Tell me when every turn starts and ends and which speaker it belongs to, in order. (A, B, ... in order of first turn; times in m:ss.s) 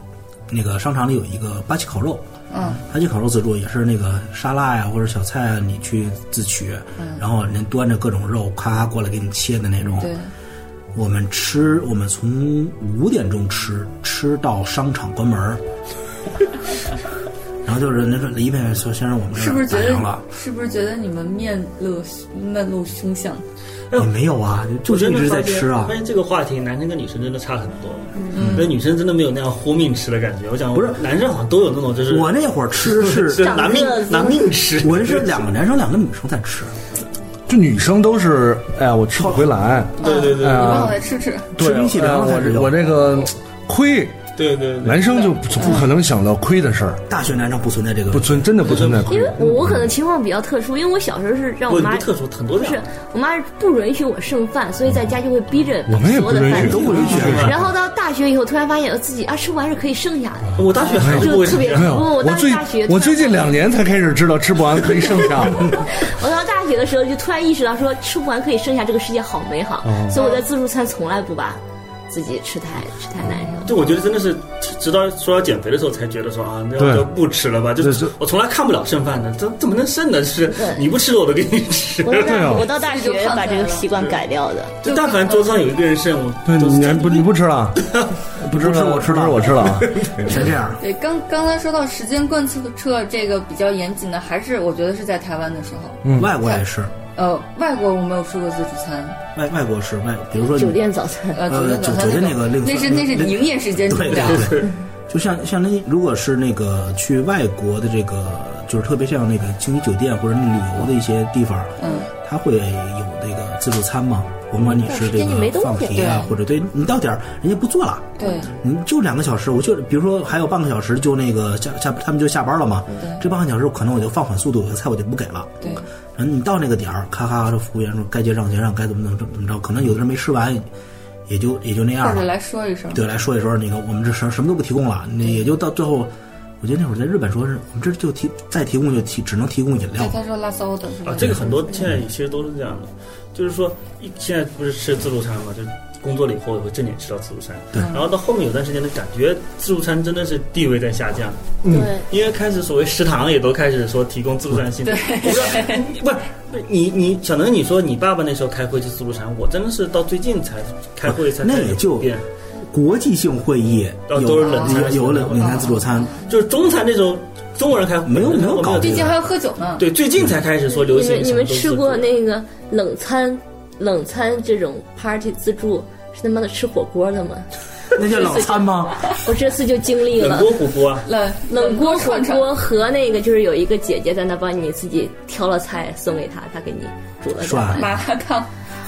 0:00.5-0:02.2 A
0:02.5-0:02.8 B
0:02.8-0:10.1 A
0:07.0-0:07.2 B
0:10.0-0:10.3 B
0:11.0-0:15.6 A
0:17.6-0:20.2 A
0:19.3-0:23.4 B
0:24.0-0:26.0 A
0:24.8-0:35.5 C
0:28.2-0:28.4 D
0:28.3-0:28.7 B
0:28.4-0:28.7 A
0:30.7-0:31.0 A
0:32.1-0:33.6 A
0:33.4-0:34.5 D
0:34.8-0:36.7 A
0:37.5-0:41.0 E
0:39.2-0:39.5 A
0:40.0-0:41.0 C
0:40.0-0:41.5 B
0:41.6-0:44.2 E
0:41.6-0:43.2 A
0:44.4-0:45.4 C
0:44.8-0:47.0 E
0:45.6-0:45.9 B
0:47.1-0:49.0 A
0:48.1-0:49.9 E
0:48.6-0:49.3 C
0:49.1-1:03.6 D
0:51.7-0:52.8 C
0:55.9-0:57.5 E
0:56.5-0:57.6 A
0:57.0-0:57.6 C
1:00.6-1:02.0 C
1:01.0-1:05.8 E
1:05.9-1:13.7 D
1:09.8-1:10.2 E
1:10.1-1:10.4 B
1:13.6-1:22.6 C
1:16.8-1:17.1 E
1:17.8-1:18.1 E
1:20.6-1:20.8 D
1:22.0-1:24.8 D
1:22.2-1:22.7 E
1:22.5-1:23.9 B
1:24.8-1:28.1 C
1:24.9-1:25.5 B
1:26.5-1:27.8 E
1:28.4-1:29.9 E
1:28.5-1:30.8 A
1:29.8-1:30.3 C
1:30.8-1:36.6 B
1:36.0-1:36.3 E
1:36.1-1:36.9 A
1:37.2-1:39.2 B
1:39.4-1:40.8 A
1:40.5-1:41.4 D
1:41.3-1:44.7 B
1:41.4-2:05.6 A
1:44.1-1:44.7 C
1:51.8-1:52.1 B
1:54.6-1:56.3 D
1:55.9-1:56.3 B
1:58.2-1:58.5 B
2:02.9-2:03.2 B
2:06.2-2:10.7 A
2:11.3-2:12.3 A
2:12.0-2:13.0 B
2:12.9-2:20.2 A
2:20.0-2:21.9 B
2:21.0-2:42.2 C
2:21.2-2:22.0 A
2:31.6-2:31.9 E
2:31.7-2:32.0 D
2:34.8-2:35.9 B
2:41.1-2:42.1 A
2:42.7-2:46.1 A
2:44.1-2:52.1 C
2:45.4-2:46.3 B
2:48.0-2:49.2 A
2:48.8-2:49.8 B
2:50.8-2:57.5 D
2:58.0-2:59.2 A
2:58.2-3:00.5 D
3:00.2-3:01.1 C
3:01.0-3:02.5 B
3:01.5-3:07.9 D
3:07.4-3:08.0 A
3:07.8-3:08.5 B